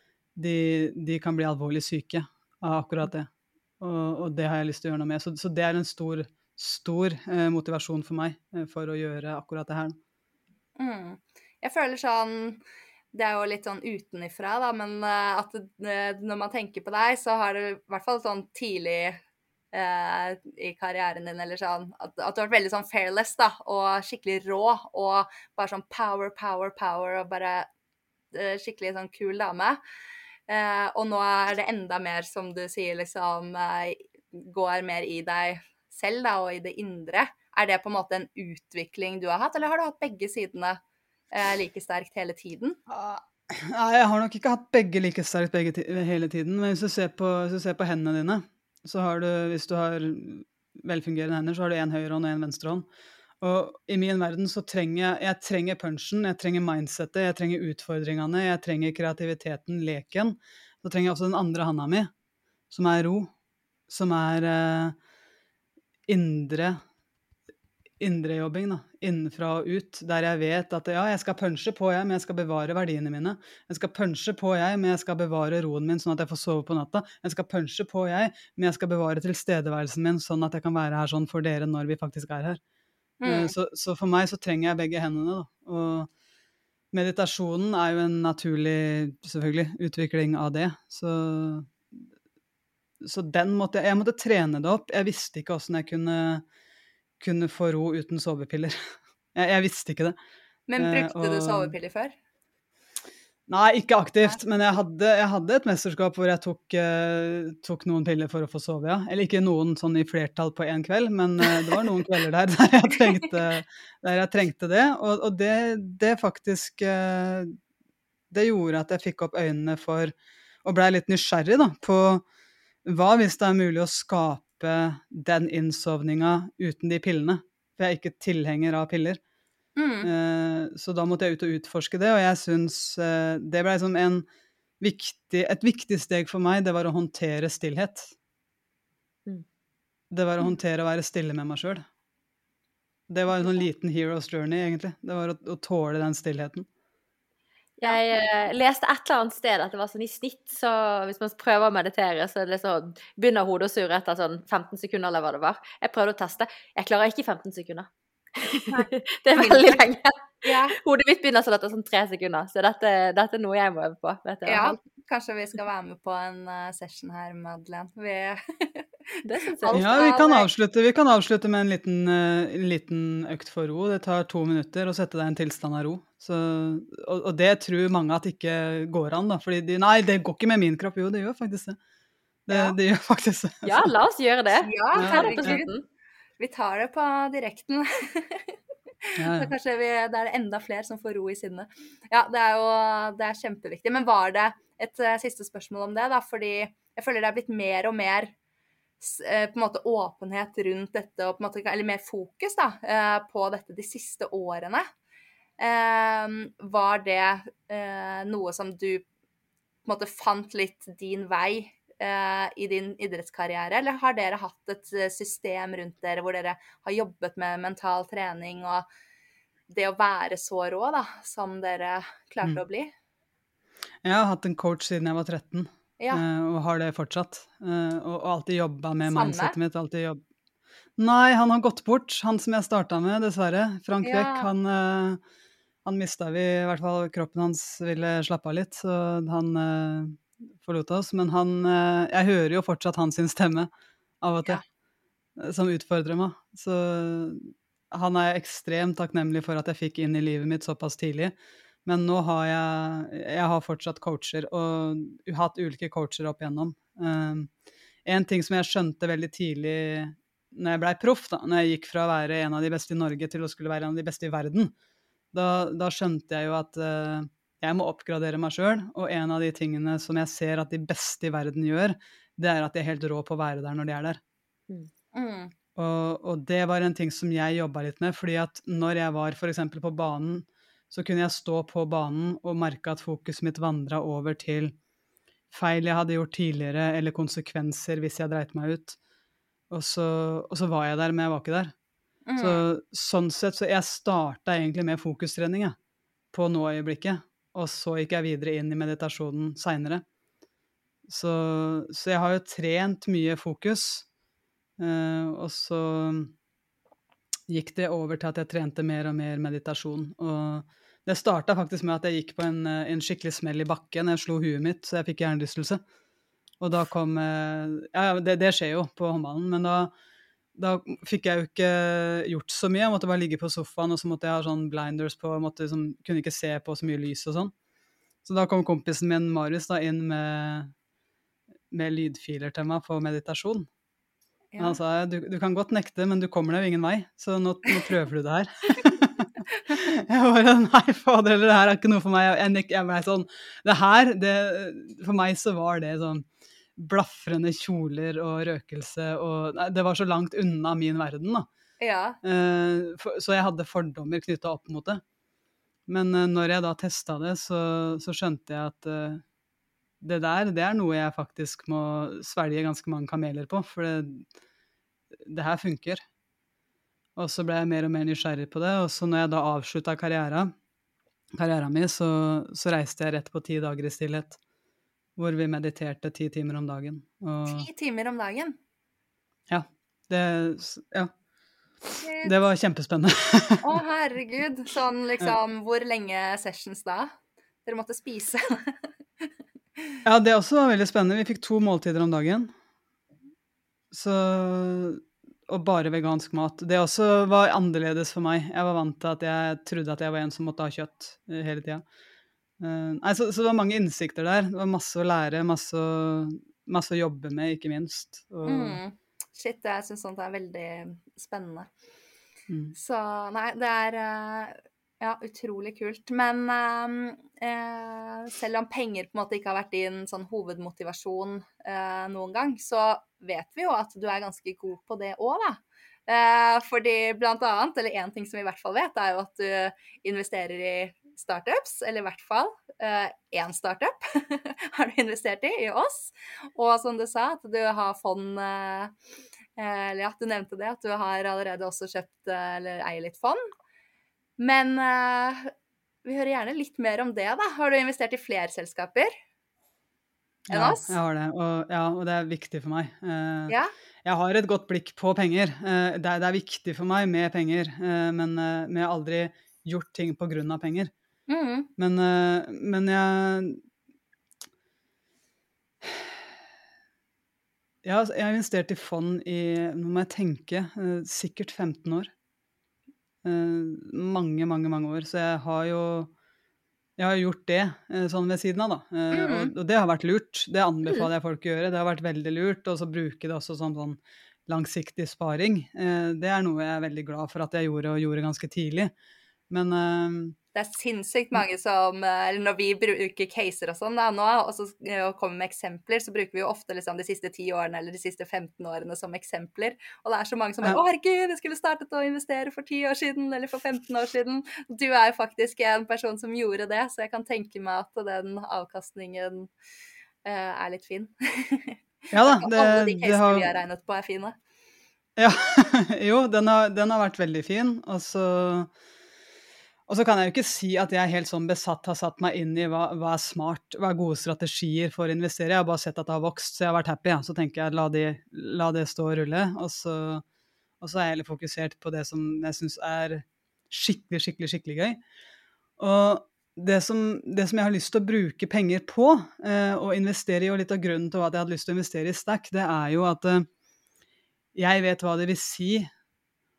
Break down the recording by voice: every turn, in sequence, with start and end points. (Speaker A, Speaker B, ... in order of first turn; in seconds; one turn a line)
Speaker A: 0.3-3.3
Speaker A: 3.8-10.0
Speaker B: 10.8-12.6
Speaker B: 13.1-19.2
Speaker B: 19.7-27.7
Speaker B: 28.3-29.8
Speaker B: 30.5-40.8
Speaker B: 41.3-42.8
Speaker A: 42.9-52.9
Speaker A: 53.4-62.1
Speaker A: 62.7-63.3
Speaker A: 63.9-64.9
Speaker A: 66.1-66.8
Speaker A: 68.0-82.6
Speaker B: 83.2-83.5
Speaker A: 83.2-86.1
Speaker A: 86.9-91.7
Speaker A: 93.0-96.4
Speaker A: 97.2-98.8
Speaker A: 99.3-100.2
Speaker B: 100.7-102.1
Speaker A: 100.8-101.7
Speaker A: 103.5-117.5
Speaker A: 118.3-122.2
Speaker A: 122.8-129.2
Speaker B: 129.8-130.1
Speaker A: 130.0-134.2
Speaker A: 134.8-138.1
Speaker A: 140.1-141.8
Speaker A: 143.1-146.7
Speaker C: 147.8-164.8
Speaker B: 158.7-159.8
Speaker B: 160.4-160.8
Speaker B: 164.4-168.8
Speaker C: 169.2-170.2
Speaker B: 169.6-170.5
Speaker A: 169.7-181.8
Speaker A: 182.5-183.9
Speaker B: 182.5-182.7
Speaker C: 183.6-185.8
Speaker B: 184.5-185.7
Speaker A: 185.0-185.6
Speaker B: 186.4-188.5
Speaker B: 189.1-198.3
Speaker A: 189.2-189.5
Speaker B: 199.0-204.9
Speaker B: 205.6-209.0
Speaker B: 209.8-218.8
Speaker B: 219.7-222.9
Speaker A: 224.0-230.2
Speaker B: 229.1-229.6
Speaker A: 231.0-235.2
Speaker B: 234.0-234.5
Speaker A: 235.8-243.7
Speaker A: 244.2-244.6
Speaker A: 245.4-257.5
Speaker A: 258.0-264.7
Speaker A: 265.3-274.2
Speaker B: 275.1-275.5
Speaker A: 275.8-284.7
Speaker A: 285.5-289.0
Speaker A: 289.7-291.7
Speaker B: 292.3-292.6
Speaker A: 292.4-295.8
Speaker A: 296.3-300.0
Speaker A: 301.1-304.1
Speaker A: 304.8-306.3
Speaker A: 307.5-315.8
Speaker A: 316.6-319.9
Speaker A: 320.6-327.5
Speaker A: 328.2-330.7
Speaker A: 331.7-333.7
Speaker B: 334.5-334.8
Speaker A: 334.6-351.5
Speaker B: 351.8-352.2
Speaker A: 352.2-355.0
Speaker A: 355.9-359.2
Speaker A: 360.0-364.2
Speaker A: 365.2-366.0
Speaker A: 367.1-370.5
Speaker A: 371.3-374.4
Speaker A: 375.2-377.7
Speaker B: 377.4-378.6
Speaker A: 379.5-381.1
Speaker B: 382.0-382.3
Speaker A: 382.2-383.6
Speaker B: 383.6-387.1
Speaker B: 387.6-388.7
Speaker A: 390.0-392.5
Speaker A: 393.9-401.8
Speaker A: 402.6-408.8
Speaker B: 408.4-411.7
Speaker A: 412.5-412.7
Speaker B: 412.7-438.9
Speaker B: 439.6-443.5
Speaker B: 444.4-445.5
Speaker B: 446.0-449.1
Speaker A: 450.5-460.9
Speaker B: 450.5-450.9
Speaker B: 461.3-461.7
Speaker A: 461.8-463.6
Speaker A: 465.8-466.1
Speaker A: 467.8-472.1
Speaker A: 473.2-476.1
Speaker A: 477.0-488.9
Speaker B: 479.1-479.5
Speaker A: 489.5-490.4
Speaker B: 490.5-509.5
Speaker B: 510.2-514.4
Speaker A: 512.1-513.5
Speaker A: 515.2-518.7
Speaker A: 519.9-530.2
Speaker A: 530.8-535.0
Speaker A: 535.8-543.5
Speaker A: 544.5-545.9